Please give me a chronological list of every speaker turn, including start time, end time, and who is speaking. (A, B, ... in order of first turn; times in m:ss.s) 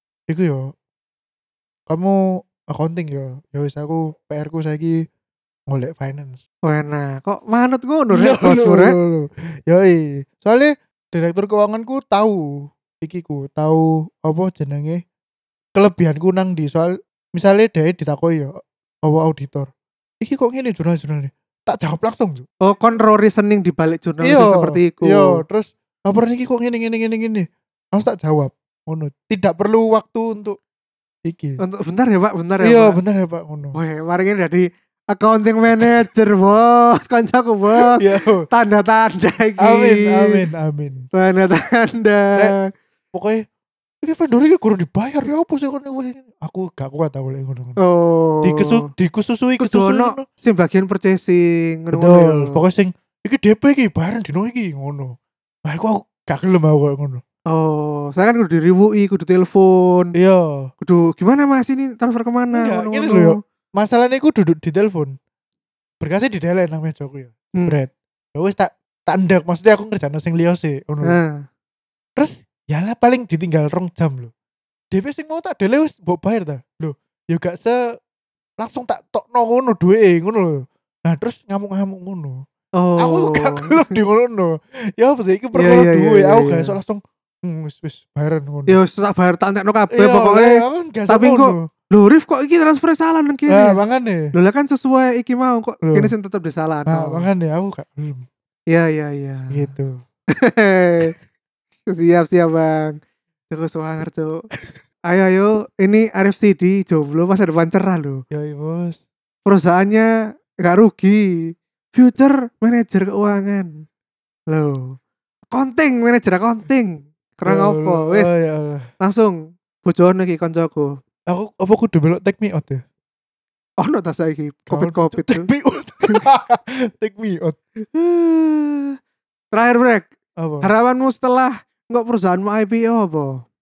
0:00.3-0:00.7 A
0:01.9-0:05.0 A
0:05.7-0:06.4 A
0:06.7-0:09.0 B
0:08.1-0:15.0 A
0:15.8-0:18.5 A
0:19.0-0:22.4 A
0:22.6-0:25.4 B
0:24.2-0:30.6 A
0:31.2-0:31.6 A
0:31.6-0:33.0 B
0:32.6-0:33.8 A
0:33.7-0:40.4 B
0:37.8-0:38.5 A
0:39.6-0:41.0 A
0:41.2-0:42.6 B
0:43.1-0:43.4 A
0:44.0-0:47.8 A
0:47.8-0:48.8 B
0:48.4-0:50.2 A
0:49.6-0:52.6 B
0:51.9-0:55.1 A
0:55.7-0:57.2 A
0:57.5-1:00.1 B
1:00.2-1:00.7 A
1:00.8-1:03.4 B
1:02.5-1:05.1 A
1:06.0-1:11.1 A
1:11.0-1:11.4 B
1:12.2-1:14.3 A
1:14.9-1:17.8 A
1:18.6-1:22.4 A
1:22.8-1:23.8 B
1:23.0-1:28.8 A
1:25.5-1:26.8 B
1:28.7-1:33.8 B
1:29.9-1:31.6 A
1:33.5-1:34.3 A
1:34.3-1:37.3 B
1:35.8-1:36.1 A
1:36.9-1:38.2 A
1:38.7-1:39.7 B
1:39.5-1:40.0 A
1:40.4-1:41.1 B
1:41.9-1:43.0 B
1:43.5-1:44.5 B
1:45.1-1:48.2 B
1:48.3-1:49.0 A
1:49.4-1:51.3 B
1:51.9-1:53.8 B
1:54.5-1:55.0 B
1:55.5-1:58.3 B
1:57.4-1:58.9 A
1:59.0-2:01.0 B
2:01.3-2:02.8 A
2:03.8-2:05.5 B
2:04.7-2:07.6 A
2:07.9-2:08.9 B
2:09.5-2:10.1 B
2:10.4-2:10.7 A
2:10.6-2:13.4 B